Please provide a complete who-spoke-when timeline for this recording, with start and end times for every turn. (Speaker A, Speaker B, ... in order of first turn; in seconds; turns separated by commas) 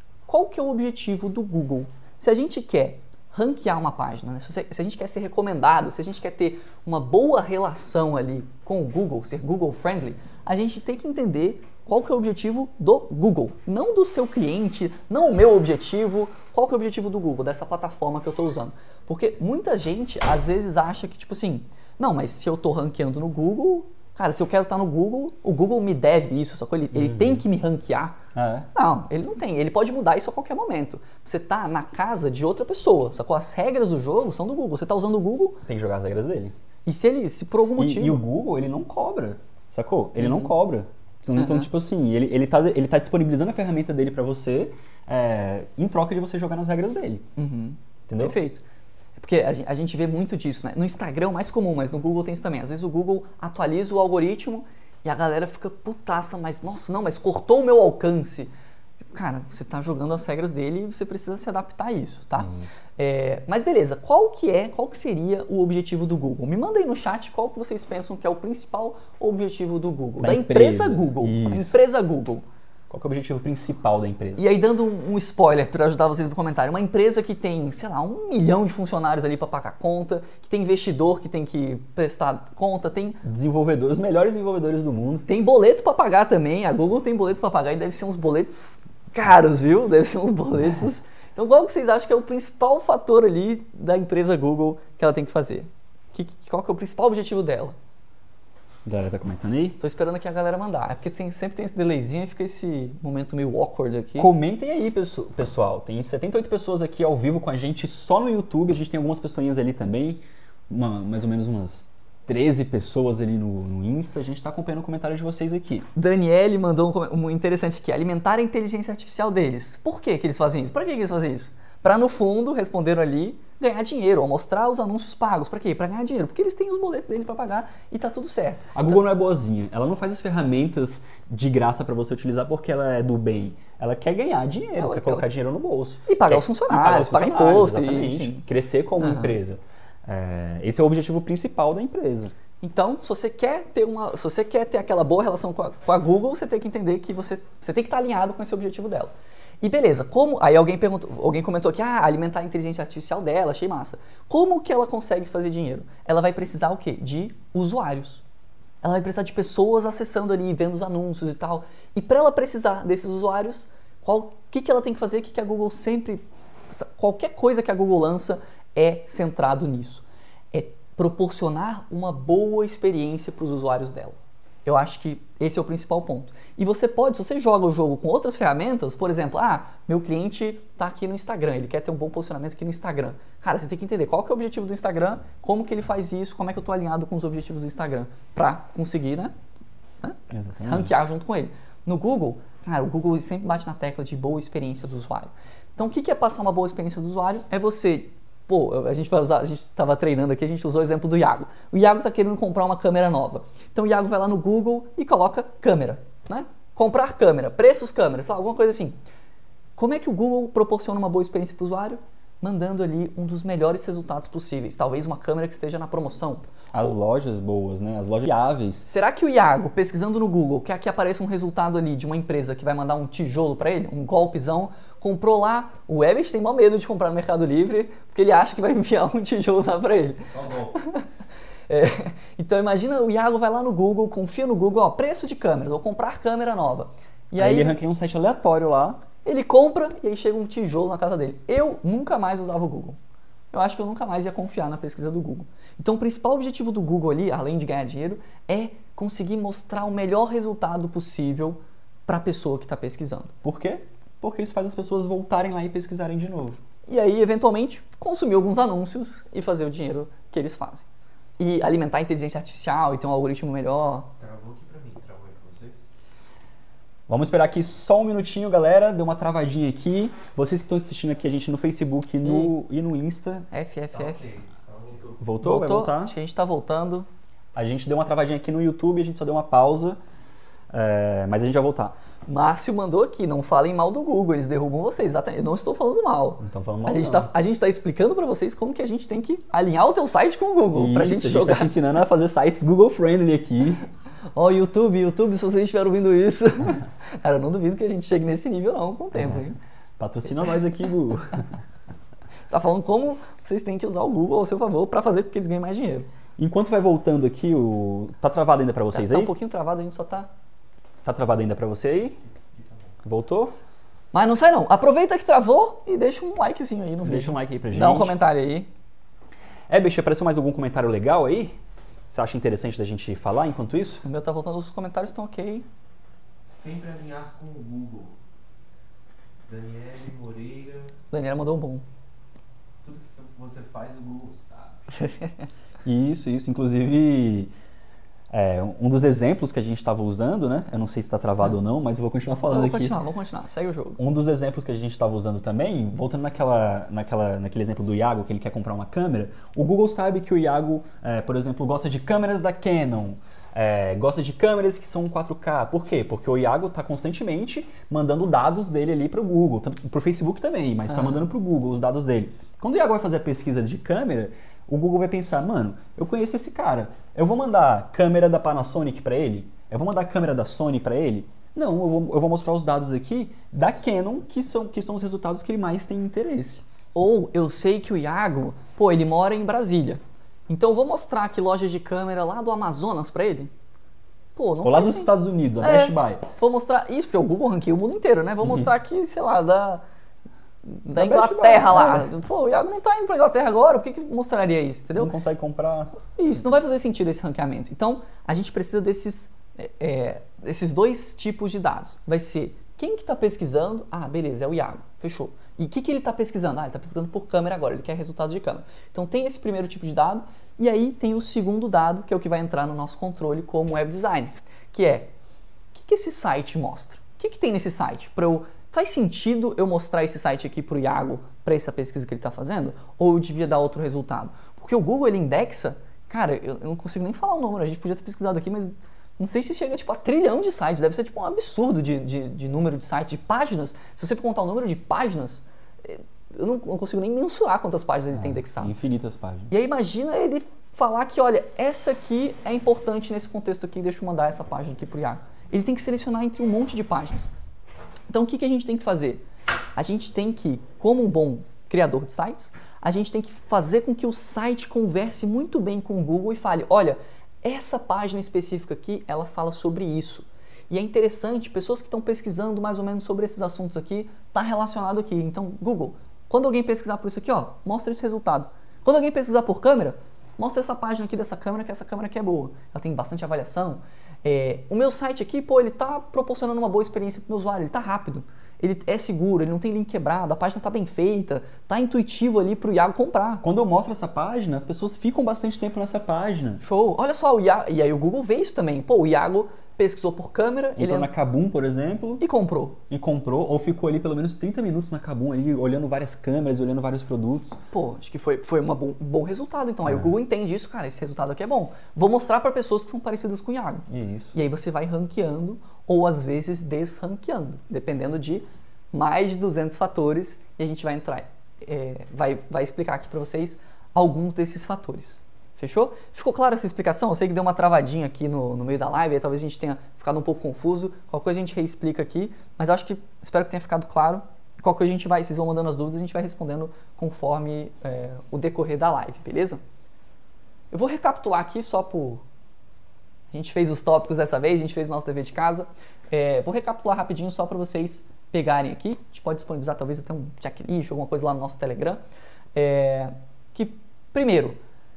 Speaker A: 0.2-28.2, Speaker B: 26.9-27.4, Speaker B: 28.3-28.7, Speaker A: 28.7-35.6, Speaker B: 35.6-36.5, Speaker A: 36.9-38.2, Speaker B: 37.8-47.2, Speaker A: 40.2-40.5, Speaker A: 41.4-41.7, Speaker A: 47.4-48.6, Speaker B: 48.1-48.4, Speaker A: 49.2-58.5, Speaker A: 59.1-72.4, Speaker B: 62.4-62.7, Speaker B: 70.2-71.8, Speaker B: 72.9-74.4, Speaker A: 74.4-83.2, Speaker B: 83.2-85.3, Speaker A: 85.3-97.8, Speaker B: 98.8-99.8, Speaker A: 99.8-104.3, Speaker B: 104.2-115.9, Speaker A: 115.9-129.0, Speaker B: 128.7-142.3, Speaker A: 134.7-135.3, Speaker A: 136.1-138.4, Speaker A: 139.0-139.4, Speaker A: 142.6-158.2, Speaker A: 158.8-189.3, Speaker A: 190.0-208.9, Speaker B: 190.3-190.9, Speaker A: 209.8-216.5, Speaker B: 216.7-218.9, Speaker A: 218.8-231.0, Speaker C: 230.3-230.8, Speaker A: 231.7-237.8, Speaker B: 237.3-239.0, Speaker A: 239.2-243.0, Speaker A: 243.5-253.3, Speaker B: 253.4-256.6, Speaker A: 256.9-260.9, Speaker A: 261.4-264.1, Speaker C: 264.2-265.9, Speaker B: 267.1-273.5, Speaker A: 272.2-272.5, Speaker A: 273.5-274.3, Speaker C: 273.9-275.2, Speaker B: 275.2-276.1, Speaker A: 275.4-277.1, Speaker B: 277.6-280.0, Speaker B: 280.7-281.9, Speaker A: 282.2-291.7, Speaker B: 286.4-287.3, Speaker B: 290.7-293.9, Speaker A: 294.3-299.6, Speaker B: 299.1-299.4, Speaker B: 300.0-301.5, Speaker A: 302.5-306.1, Speaker B: 306.4-309.3, Speaker A: 308.9-310.3, Speaker B: 311.0-312.2, Speaker B: 313.0-313.5, Speaker A: 314.1-318.7, Speaker B: 317.0-318.1, Speaker B: 319.7-321.6, Speaker B: 322.1-324.0, Speaker A: 324.0-325.6, Speaker C: 326.4-328.2, Speaker C: 329.4-330.9, Speaker A: 331.1-331.8, Speaker C: 332.8-334.9, Speaker A: 335.0-335.4, Speaker B: 335.8-337.5, Speaker B: 338.3-342.9, Speaker A: 342.3-344.0, Speaker B: 344.0-376.6, Speaker A: 376.9-383.5, Speaker A: 384.3-389.8, Speaker B: 384.6-386.3, Speaker A: 390.6-395.1, Speaker B: 390.9-392.1, Speaker B: 395.0-396.0, Speaker A: 396.1-415.1, Speaker A: 415.7-438.7, Speaker B: 438.1-439.5, Speaker A: 439.5-447.3, Speaker A: 448.1-449.2, Speaker A: 449.8-483.4, Speaker B: 483.4-486.6, Speaker A: 486.6-491.1, Speaker B: 490.8-492.2, Speaker A: 492.2-492.8, Speaker B: 492.9-497.6, Speaker A: 497.7-529.6, Speaker B: 499.8-500.1, Speaker B: 503.9-504.3, Speaker A: 530.7-532.2, Speaker A: 533.3-542.0, Speaker A: 542.5-544.6